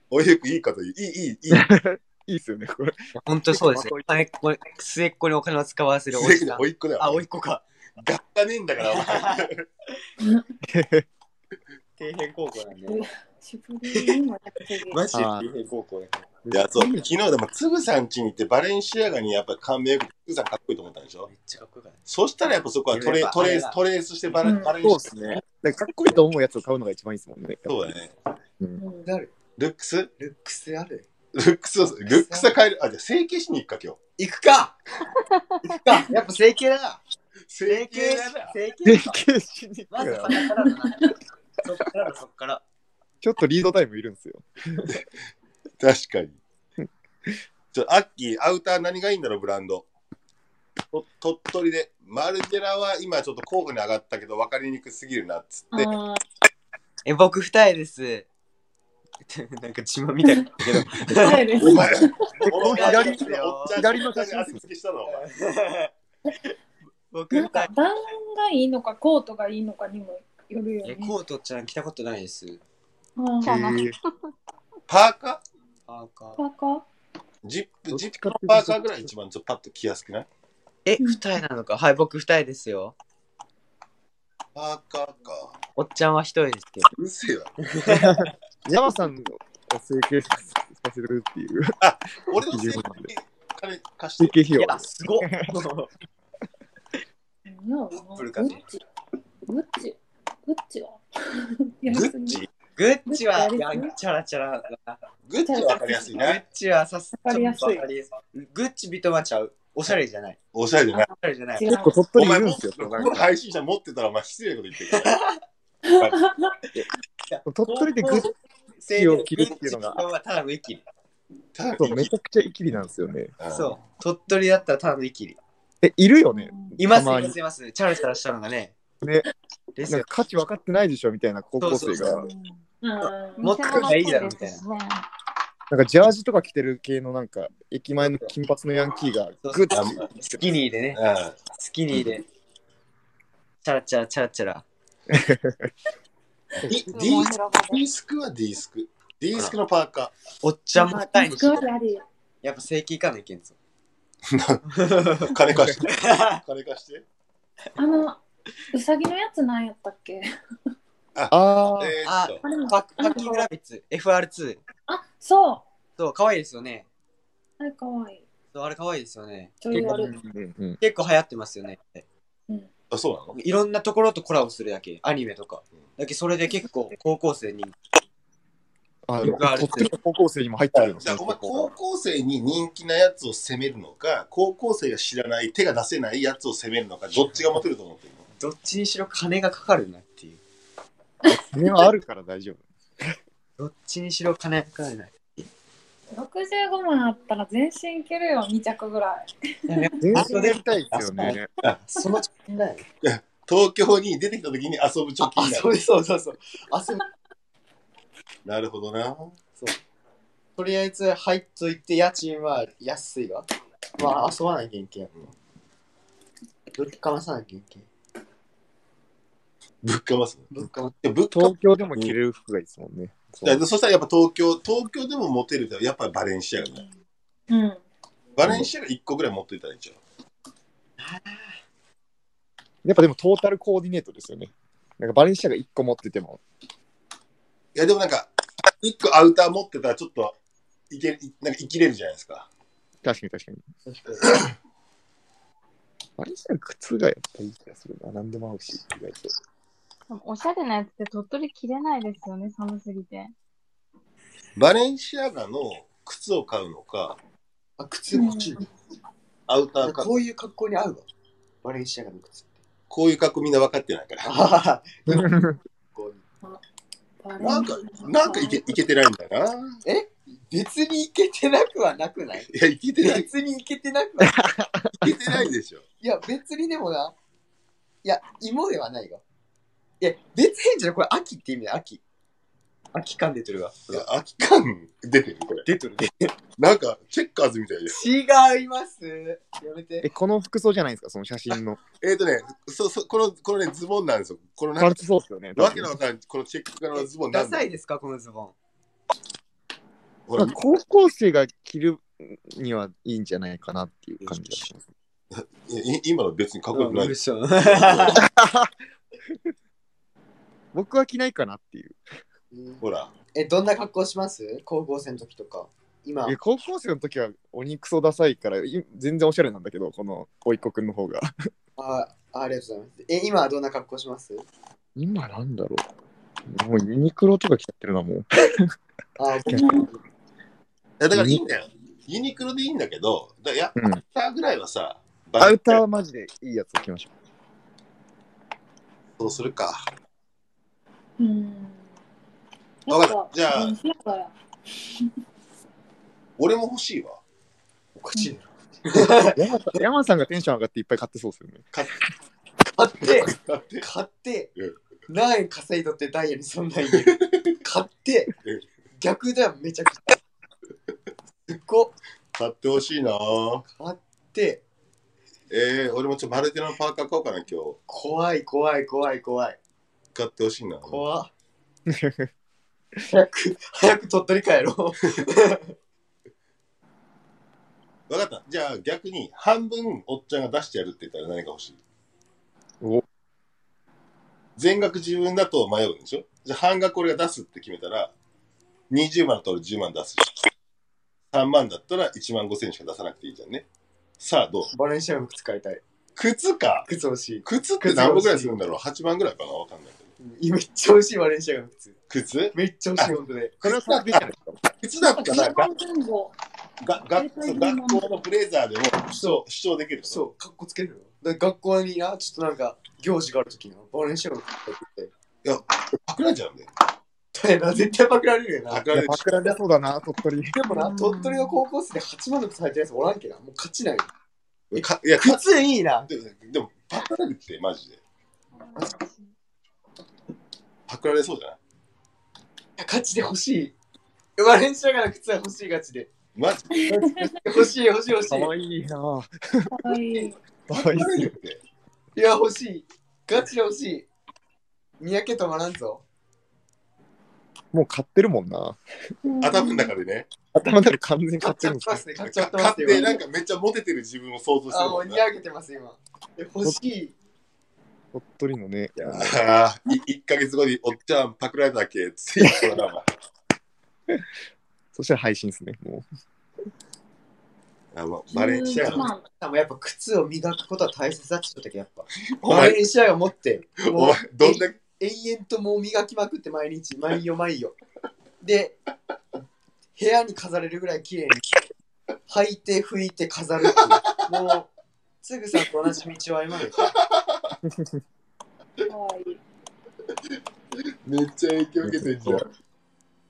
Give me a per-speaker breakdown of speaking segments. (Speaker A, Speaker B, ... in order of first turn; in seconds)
Speaker A: 0.1-1.6, 6.1-7.2, 8.0-9.6, 16.5-21.3, 22.1-25.4, 27.7-28.1, 29.6-30.1, 31.3-34.0, 37.5-38.5, 45.8-46.4, 47.7-49.9, 50.9-55.9, 61.5-65.2, 74.9-75.4, 77.4-80.3, 84.5-85.5, 86.9-87.5, 91.8-94.4, 101.9-102.5, 105.3-106.4, 110.5-111.1, 112.1-115.1, 121.5-122.1, 123.4-123.8, 139.7-140.0, 140.9-141.4, 146.6-150.1, 154.3-154.6, 155.2-157.0, 161.1-162.4, 172.9-173.4, 180.7-188.2, 203.0-205.7, 208.4-209.3, 219.8-222.1, 223.4-226.8, 228.3-230.0, 237.8-240.4, 240.9-242.5, 254.6-257.2, 259.5-260.1, 262.9-264.3, 267.4-269.8, 272.5-273.3, 275.0-275.9, 283.9-285.6, 286.6-288.0, 292.0-295.0, 295.6-297.7, 300.3-300.6, 305.3-308.2, 312.8-313.1, 331.0-335.8, 339.2-339.8, 342.9-343.8, 346.4-347.2, 353.0-353.9, 357.0-357.5, 362.4-363.6, 365.5-367.8, 370.1-371.0, 378.1-381.8, 384.6-388.1, 388.9-390.4, 391.3-393.6, 394.2-394.7, 396.1-396.9, 397.4-400.1, 402.1-404.2, 404.8-405.7, 406.8-410.2, 415.4-416.7, 418.7-419.6, 424.7-428.0, 430.9-431.6, 436.4-437.0, 440.7-441.6, 449.4-450.3, 452.2-455.2, 459.1-463.1, 467.9-469.1, 472.3-472.8, 473.8-474.8, 487.1-487.5, 491.0-492.4
Speaker B: 1.5-4.1, 10.6-11.1, 15.1-15.4, 16.7-17.0, 24.6-27.9, 38.9-40.6, 43.2-45.0, 62.4-64.6, 73.4-74.0, 77.9-79.1, 87.9-91.8, 92.3-93.1, 94.2-95.6, 111.7-113.2, 117.5-118.3, 118.9-120.0, 121.8-123.3, 125.8-127.4, 129.0-129.3, 129.9-132.3, 135.7-140.4, 145.1-145.7, 155.5-155.8, 161.3-162.0, 169.7-170.8, 179.1-181.7, 191.3-193.2, 200.0-201.5, 221.3-223.6, 232.8-236.4, 243.0-243.6, 246.2-249.3, 265.1-265.6, 274.2-275.4, 290.0-291.8, 294.8-296.0, 300.4-304.9, 308.1-308.7, 310.7-312.0, 316.2-321.3, 324.9-325.9, 326.5-328.7, 331.1-331.4, 333.8-334.0, 335.4-337.1, 349.4-351.7, 371.9-372.3, 403.6-404.6, 418.9-420.6, 438.3-439.7, 440.7-441.3, 447.7-448.8, 450.5-452.1, 458.1-459.4, 462.4-462.8, 464.9-466.0, 487.6-487.9, 491.8-492.4
Speaker C: 3.1-7.6, 8.8-9.5, 12.0-13.1, 13.9-14.2, 14.8-16.8, 21.3-22.0, 22.9-23.8, 29.0-29.3, 30.2-31.1, 31.9-32.5, 34.2-34.8, 35.6-37.0, 37.6-39.2, 39.9-42.6, 57.0-58.3, 59.3-61.9, 62.4-63.8, 65.0-66.5, 67.1-67.7, 70.8-72.6, 75.9-76.4, 80.8-83.0, 85.8-86.9, 87.6-88.2, 94.5-95.9, 97.9-98.6, 102.8-105.0, 106.1-110.4, 111.1-111.7, 114.9-115.4, 117.2-118.3, 118.8-120.8, 123.5-125.4, 126.8-128.8, 129.8-130.1, 131.6-132.2, 133.4-134.6, 138.0-138.3, 139.4-141.0, 141.5-142.2, 143.6-144.7, 150.4-151.7, 152.4-153.6, 154.7-156.4, 162.0-164.6, 166.0-166.9, 168.5-169.7, 170.8-172.1, 173.3-177.8, 179.2-179.9, 188.4-190.4, 193.6-195.4, 199.7-202.8, 205.2-207.0, 210.6-213.5, 214.0-215.1, 216.7-217.9, 220.5-220.9, 231.0-231.6, 243.8-244.5, 257.8-258.6, 259.8-261.1, 261.6-262.6, 264.2-265.4, 265.9-266.2, 269.9-274.5, 276.0-277.1, 278.0-279.2, 280.0-282.0, 282.9-284.1, 285.6-286.3, 287.9-290.1, 296.9-298.5, 304.2-304.7, 306.7-308.2, 312.5-312.8, 313.3-316.4, 321.8-324.4, 329.2-330.0, 348.0-349.4, 352.7-354.5, 355.1-358.3, 359.0-360.2, 361.5-361.9, 363.6-364.6, 367.9-369.6, 370.9-371.3, 373.1-375.7, 394.7-395.8, 396.9-398.6, 400.2-401.9, 402.5-403.6, 409.1-409.4, 410.0-415.1, 417.3-418.9, 420.5-424.1, 424.7-426.1, 432.8-433.8, 434.4-436.1, 436.9-438.5, 442.1-444.1, 445.0-446.0, 451.4-453.2, 454.7-457.1, 468.8-477.8, 478.4-478.8, 480.0-481.5, 482.3-484.7, 485.2-486.9
Speaker D: 10.2-10.4, 12.9-15.0, 24.4-24.7, 28.8-29.1, 55.7-56.2, 61.1-62.1, 67.3-71.1, 73.2-73.5, 76.4-76.9, 97.5-98.8, 99.5-102.4, 103.1-103.9, 105.5-106.1, 107.2-107.9, 111.5-112.0, 115.9-116.5, 132.8-133.8, 150.8-152.0, 157.8-158.2, 158.7-160.2, 162.4-163.5, 164.9-165.7, 167.6-168.2, 169.6-170.1, 196.1-199.9, 227.5-227.8, 258.1-258.6, 267.2-268.8, 329.5-329.9, 341.2-341.8, 342.9-344.3, 405.0-406.4, 407.1-408.1, 436.9-437.2, 439.7-440.4, 449.2-449.9, 468.3-469.2, 488.8-489.4
Speaker E: 73.4-74.0, 132.1-132.5, 133.4-135.0, 146.9-147.8, 250.1-253.3, 420.8-421.6